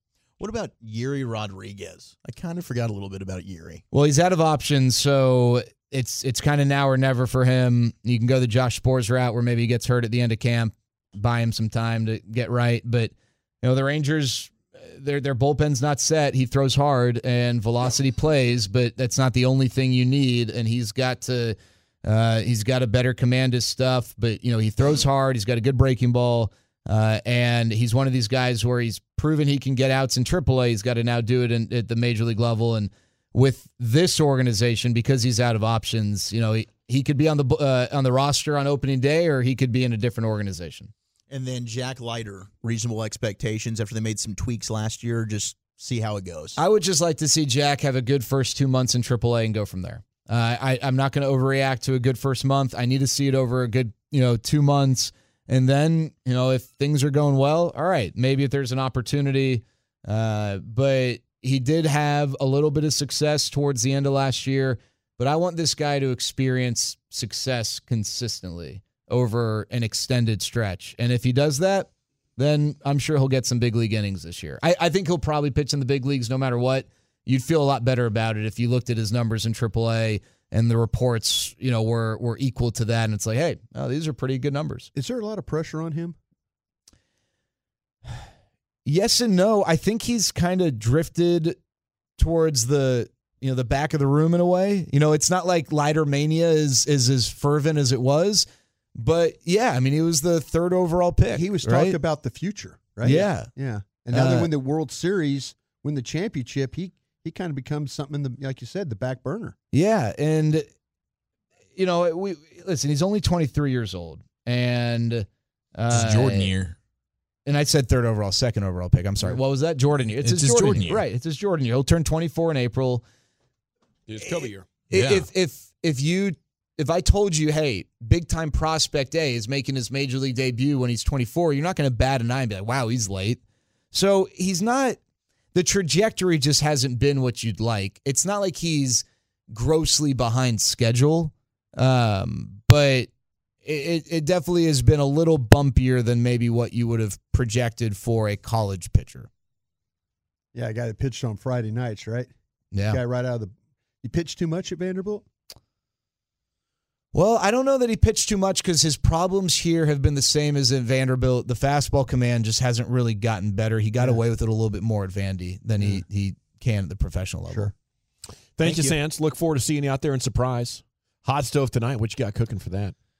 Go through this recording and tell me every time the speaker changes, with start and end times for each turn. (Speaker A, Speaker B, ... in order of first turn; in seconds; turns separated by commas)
Speaker A: 0.4-3.8, Speaker B: 3.9-40.9, Speaker A: 41.3-46.6, Speaker B: 46.6-84.9, Speaker C: 84.9-86.2, Speaker B: 88.8-91.6, Speaker B: 92.2-102.0, Speaker C: 101.3-109.5, Speaker B: 103.0-103.5, Speaker B: 104.1-104.5, Speaker B: 109.7-110.7, Speaker B: 111.8-116.5, Speaker D: 115.9-116.8, Speaker B: 117.5-123.0, Speaker D: 120.2-121.0, Speaker E: 124.1-124.7, Speaker B: 124.2-133.4, Speaker D: 124.9-125.3, Speaker B: 133.9-135.0, Speaker B: 135.5-143.1, Speaker B: 143.6-149.3, Speaker C: 150.5-152.3, Speaker B: 152.7-153.0, Speaker C: 152.9-155.3, Speaker B: 157.1-167.7, Speaker E: 168.6-172.9, Speaker A: 168.6-168.9